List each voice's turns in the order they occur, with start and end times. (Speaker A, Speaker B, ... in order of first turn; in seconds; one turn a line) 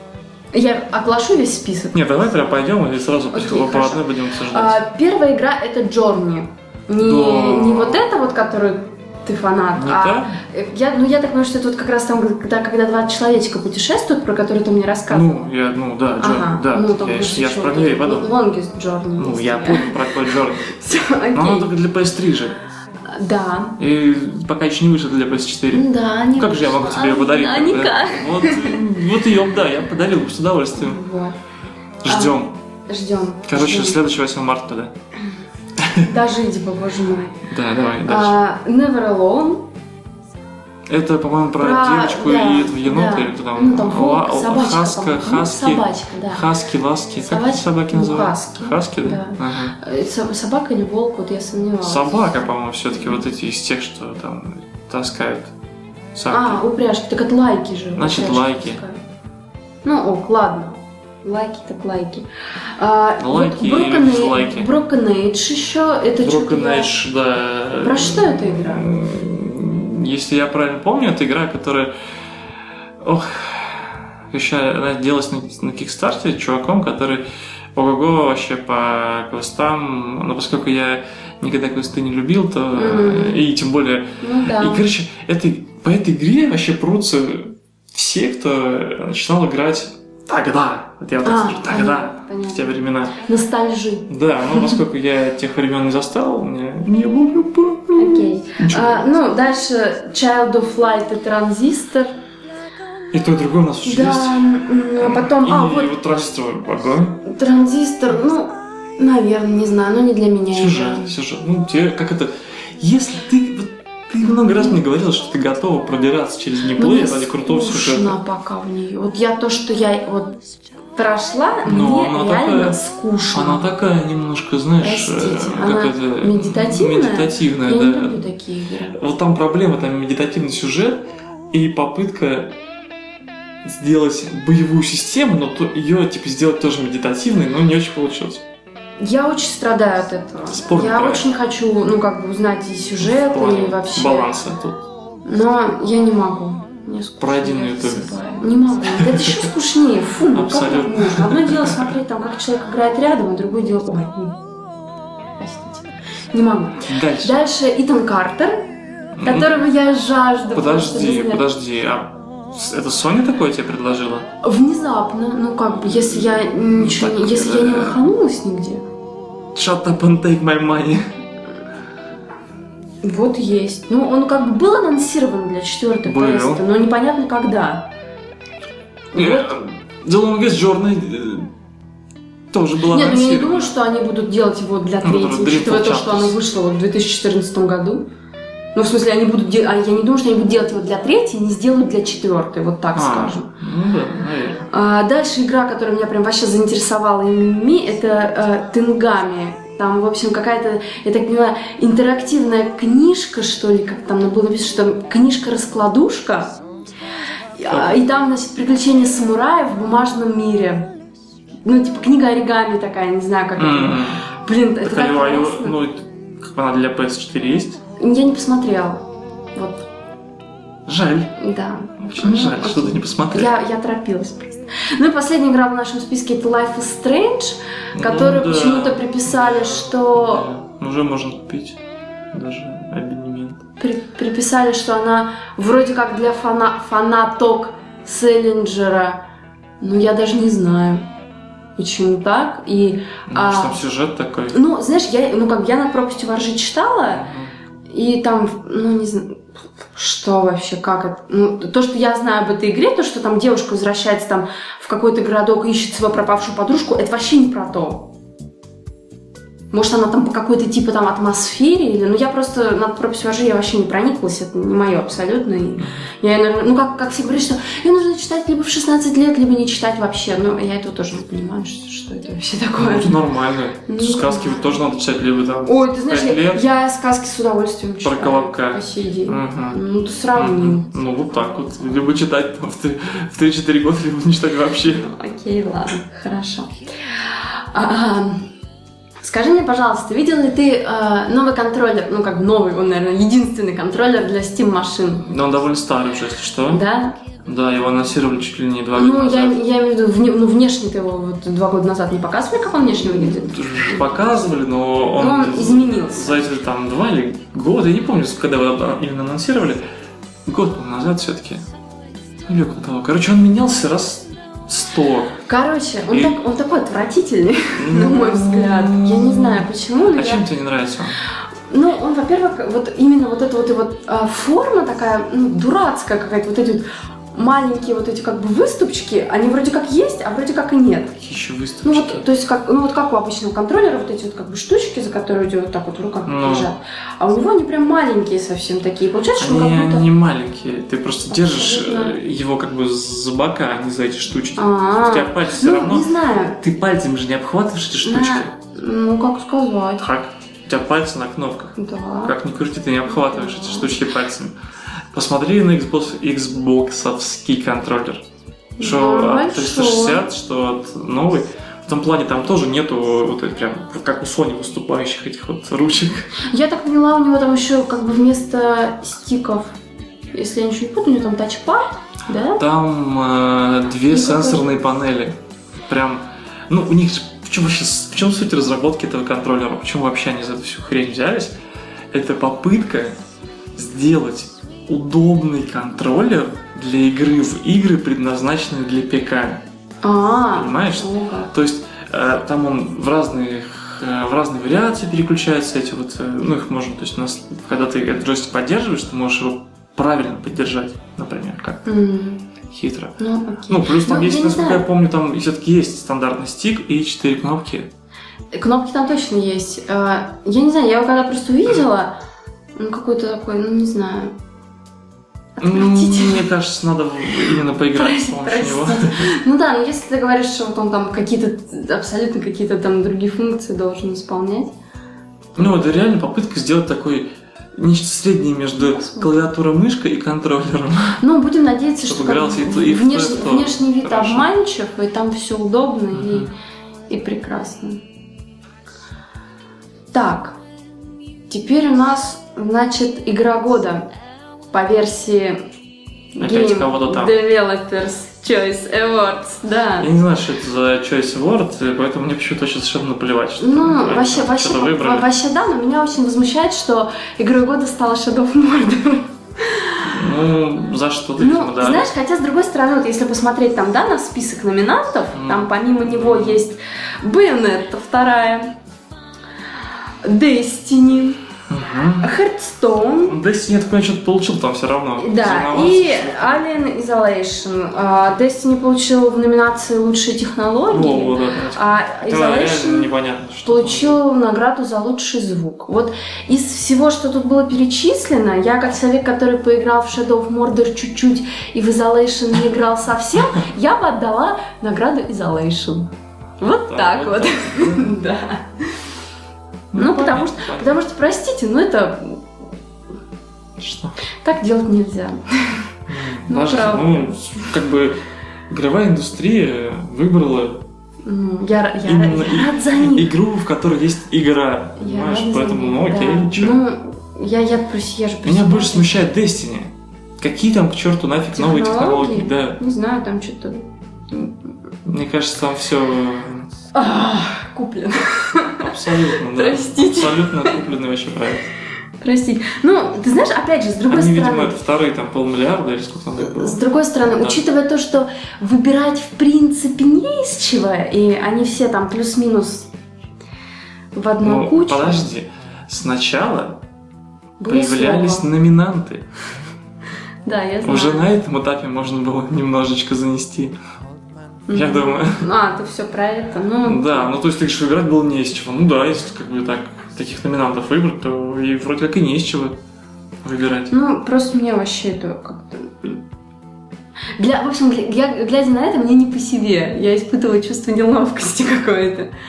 Speaker A: 0.5-2.0
Speaker B: 1.9-4.8
Speaker A: 3.3-15.5
Speaker B: 7.0-8.1
Speaker B: 9.7-10.4
Speaker B: 15.1-18.3
Speaker A: 16.2-21.7
Speaker B: 19.2-20.7
Speaker B: 21.3-22.6
Speaker A: 23.1-23.8
Speaker B: 23.8-31.0
Speaker A: 25.7-28.8
Speaker A: 30.8-31.4
Speaker B: 32.0-32.5
Speaker A: 32.1-34.0
Speaker B: 33.5-34.9
Speaker B: 35.8-36.1
Speaker A: 36.0-37.4
Speaker B: 37.5-38.4
Speaker A: 38.0-39.7
Speaker B: 40.9-49.8
Speaker A: 41.6-46.4
Speaker A: 47.3-52.4
Speaker B: 51.8-55.5
Speaker B: 56.1-56.6
Speaker A: 56.3-59.0
Speaker B: 58.0-58.8
Speaker A: 59.8-62.3
Speaker A: 62.8-67.0
Speaker B: 63.2-64.7
Speaker B: 66.2-71.9
Speaker A: 67.8-68.9
Speaker B: 73.0-93.2
Speaker A: 82.7-83.4
Speaker A: 84.2-84.8
Speaker A: 91.2-92.7
Speaker A: 93.2-94.8
Speaker B: 94.1-99.1
Speaker A: 98.0-102.2
Speaker B: 103.1-107.2
Speaker A: 103.8-105.9
Speaker A: 107.2-111.1
Speaker B: 110.5-118.2
Speaker A: 114.2-114.8
Speaker A: 116.7-120.4
Speaker A: 120.9-123.6
Speaker B: 121.6-122.8
Speaker B: 123.3-128.3
Speaker A: 124.8-129.0
Speaker B: 128.9-132.6
Speaker B: 133.6-138.4
Speaker A: 139.0-144.3
Speaker B: 140.5-141.3
Speaker B: 143.0-144.8
Speaker A: 145.2-154.4
Speaker B: 147.2-148.2
Speaker B: 148.9-149.5
Speaker B: 150.3-151.9
Speaker A: 155.4-158.7
Speaker B: 156.8-157.3
Speaker B: 159.2-159.6
Speaker A: 159.2-161.4
Speaker B: 160.5-164.3
Speaker A: 164.4-168.8
Speaker B: 165.8-168.0
Speaker B: 169.5-171.1
Speaker A: 173.0-177.9
Speaker B: 176.0-176.6
Speaker A: 179.1-179.6
Speaker B: 179.1-181.5
Speaker B: 182.5-183.7
Speaker A: 182.8-188.1
Speaker B: 185.0-186.4
Speaker A: 188.7-193.5
Speaker B: 192.9-194.6
Speaker A: 194.7-206.6
Speaker A: 207.6-210.9
Speaker B: 207.7-208.0
Speaker A: 211.6-215.8
Speaker B: 213.6-214.2
Speaker B: 214.8-217.8
Speaker A: 218.0-219.8
Speaker B: 220.8-221.3
Speaker A: 221.4-230.5
Speaker B: 222.0-223.5
Speaker B: 227.9-231.8
Speaker B: 232.3-233.6
Speaker A: 233.8-239.2
Speaker A: 239.8-241.1
Speaker A: 241.8-243.8
Speaker B: 243.3-244.6
Speaker A: 244.5-247.3
Speaker B: 247.1-247.5
Speaker A: 247.9-258.1
Speaker A: 259.7-273.2
Speaker B: 265.8-266.1
Speaker B: 272.8-276.6
Speaker A: 273.9-274.8
Speaker A: 275.6-282.1
Speaker B: 278.0-279.8
Speaker B: 280.3-285.1
Speaker A: 284.8-288.5
Speaker A: 289.2-295.2
Speaker B: 295.2-296.8
Speaker A: 296.7-297.2
Speaker B: 297.4-299.6
Speaker A: 298.9-304.2
Speaker B: 302.9-309.8
Speaker A: 305.1-306.4
Speaker B: 310.4-311.6
Speaker B: 312.4-315.4
Speaker A: 315.5-320.5
Speaker B: 316.1-316.4
Speaker B: 317.7-321.2
Speaker A: 321.7-331.2
Speaker B: 331.2-332.2
Speaker A: 331.8-340.1
Speaker B: 336.2-336.7
Speaker B: 339.4-348.5
Speaker A: 341.3-342.2
Speaker A: 344.6-346.6
Speaker A: 348.0-350.0
Speaker B: 350.0-354.6
Speaker A: 351.8-352.3
Speaker A: 353.1-354.0
Speaker B: 355.1-358.2
Speaker A: 358.8-360.3
Speaker B: 358.8-366.3
Speaker A: 366.4-369.8
Speaker A: 370.3-372.6
Speaker B: 372.6-381.5
Speaker A: 374.1-374.7
Speaker B: 382.1-383.2
Speaker B: 383.7-389.6
Speaker A: 390.0-391.5
Speaker B: 390.5-401.8
Speaker A: 401.8-402.5
Speaker B: 402.7-407.9
Speaker A: 403.2-404.8
Speaker A: 408.5-412.2
Speaker A: 412.8-414.3
Speaker A: 415.6-416.5
Speaker B: 415.6-419.3
Speaker A: 417.9-424.7
Speaker B: 425.6-431.2
Speaker A: 425.6-425.8
Speaker A: 428.8-429.5
Speaker A: 431.2-436.5
Speaker B: 432.0-434.5
Speaker B: 436.1-436.5
Speaker A: 437.1-438.0
Speaker A: 440.1-440.6
Speaker A: 441.5-444.1
Speaker A: 444.7-445.6
Speaker A: 446.3-450.1
Speaker B: 446.4-447.3
Speaker B: 450.0-455.3
Speaker A: 453.6-460.2
Speaker B: 460.0-462.1
Speaker A: 461.4-468.8
Speaker B: 465.3-466.6
Speaker A: 470.2-471.4
Speaker B: 471.7-472.3
Speaker A: 472.2-473.4
Speaker B: 473.3-476.7
Speaker A: 475.2-483.1
Speaker B: 480.9-484.2
Speaker A: 483.6-499.0
Speaker B: 496.9-498.1
Speaker B: 499.9-501.0
Speaker A: 499.9-502.4
Speaker B: 503.8-504.2
Speaker A: 504.4-505.9
Speaker B: 506.1-510.9
Speaker A: 506.5-507.7
Speaker A: 511.2-513.3
Speaker B: 512.0-516.8
Speaker A: 515.0-519.2
Speaker B: 518.4-522.8
Speaker A: 521.5-524.7
Speaker B: 525.0-526.7
Speaker A: 526.9-530.8
Speaker B: 528.8-531.7
Speaker A: 532.2-534.8
Speaker B: 534.1-537.6
Speaker A: 536.4-542.9
Speaker A: 544.1-545.3
Speaker B: 544.4-546.8
Speaker A: 547.6-548.5
Speaker B: 547.7-549.3
Speaker A: 550.4-551.3
Speaker B: 550.8-553.7
Speaker A: 554.7-557.3
Speaker B: 554.7-555.4
Speaker B: 556.8-562.8
Speaker B: 563.4-563.9
Speaker A: 563.9-566.2
Speaker A: 567.4-572.3